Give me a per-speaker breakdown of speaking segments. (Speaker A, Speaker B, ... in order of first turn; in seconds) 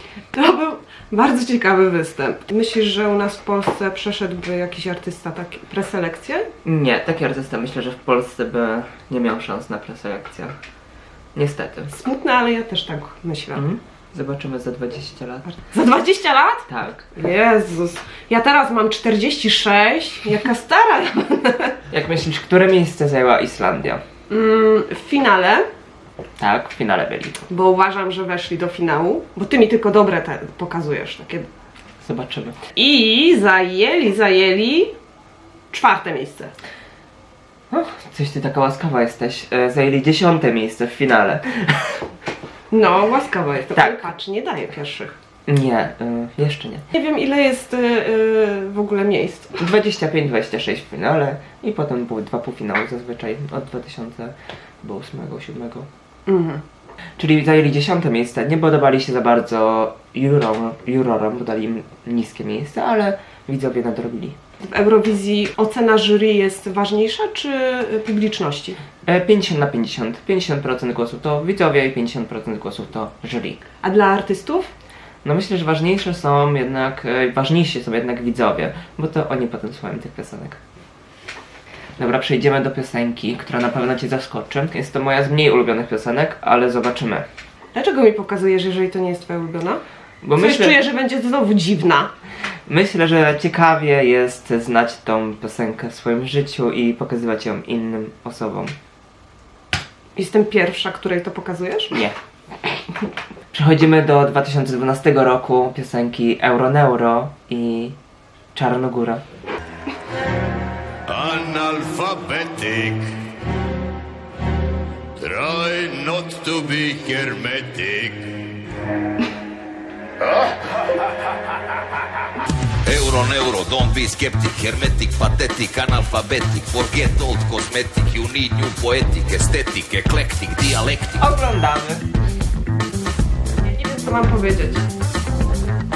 Speaker A: 0.3-6.5, 11.9-13.6, 15.5-21.8, 24.3-25.6, 27.5-31.5, 32.7-34.9, 35.7-36.5, 42.7-45.1, 46.9-49.6, 56.3-56.6, 64.6-68.8, 73.8-74.7, 87.7-89.8, 90.3-92.1, 100.2-102.0, 133.6-134.8
Speaker B: 6.6-10.5, 11.3-11.9, 13.5-15.5, 16.7-17.1, 21.9-24.0, 26.4-27.4, 32.0-32.6, 37.7-42.0, 43.7-44.1, 45.5-46.8, 49.6-55.9, 57.2-64.4, 69.0-73.6, 75.2-80.6, 82.0-87.2, 90.2-90.8, 92.7-98.7, 103.5-108.0, 108.5-109.2, 131.2-132.0
Speaker C: 111.1-113.1, 115.2-118.3
Speaker D: 122.8-131.3